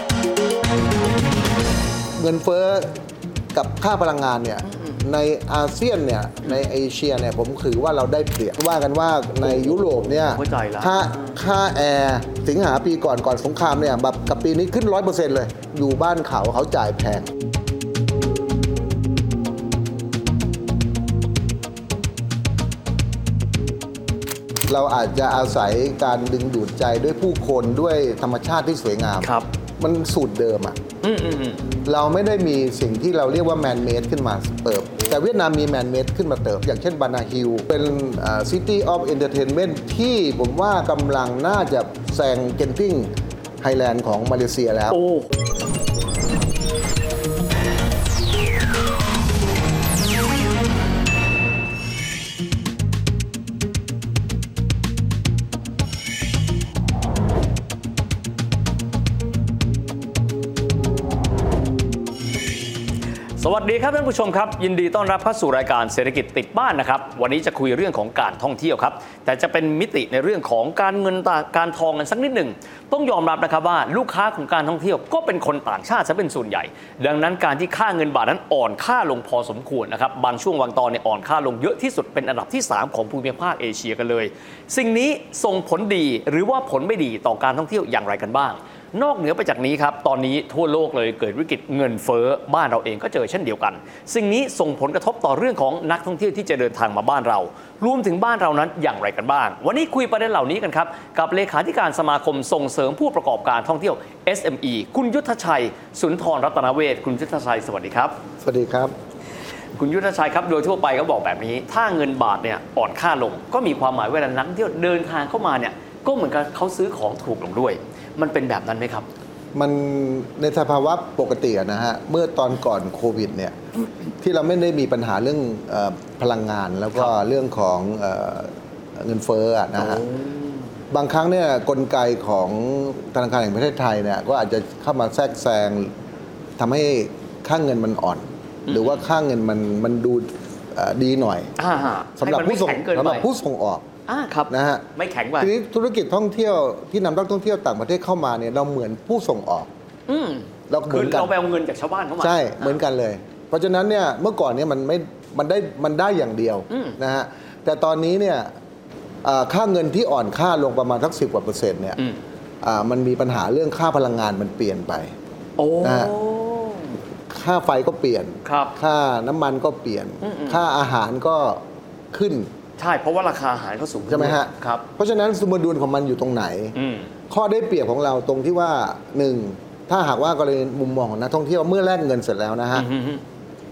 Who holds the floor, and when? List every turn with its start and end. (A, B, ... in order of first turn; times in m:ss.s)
0:02.2-0:02.9 A
0:03.5-0:17.3 A
0:09.4-0:09.7 B
0:10.3-0:11.0 B
0:24.7-0:30.8 A
0:29.2-0:29.5 B
0:31.0-0:31.6 B
0:31.8-0:43.1 A
0:43.6-0:45.0 A
0:44.9-0:45.3 B
1:03.4-1:48.2 B
1:48.4-1:48.9 A
1:49.8-1:59.1 B
1:59.6-2:03.6 A
2:04.2-2:10.1 A
2:09.8-2:10.6 B
2:10.9-2:15.9 A
2:16.6-2:21.5 A
2:18.7-2:19.0 B
2:21.6-2:23.2 B
2:22.2-2:23.8 A
2:24.1-2:25.5 B
2:24.5-2:24.8 A
2:25.4-2:29.7 A
2:30.1-2:32.8 B
2:30.7-2:31.3 A
2:32.2-2:38.5 A
2:36.7-2:37.0 B
2:39.2-2:42.0 A
2:42.6-2:45.1 A
2:45.6-2:47.0 B
2:45.8-2:46.1 A
2:47.3-2:51.6 A
2:48.4-2:48.8 B
2:50.2-2:50.7 B
2:52.1-2:52.5 A
2:52.8-2:54.8 B
2:54.1-2:56.8 A
2:56.8-2:57.1 B
2:57.3-3:02.9 A
3:02.7-3:03.2 B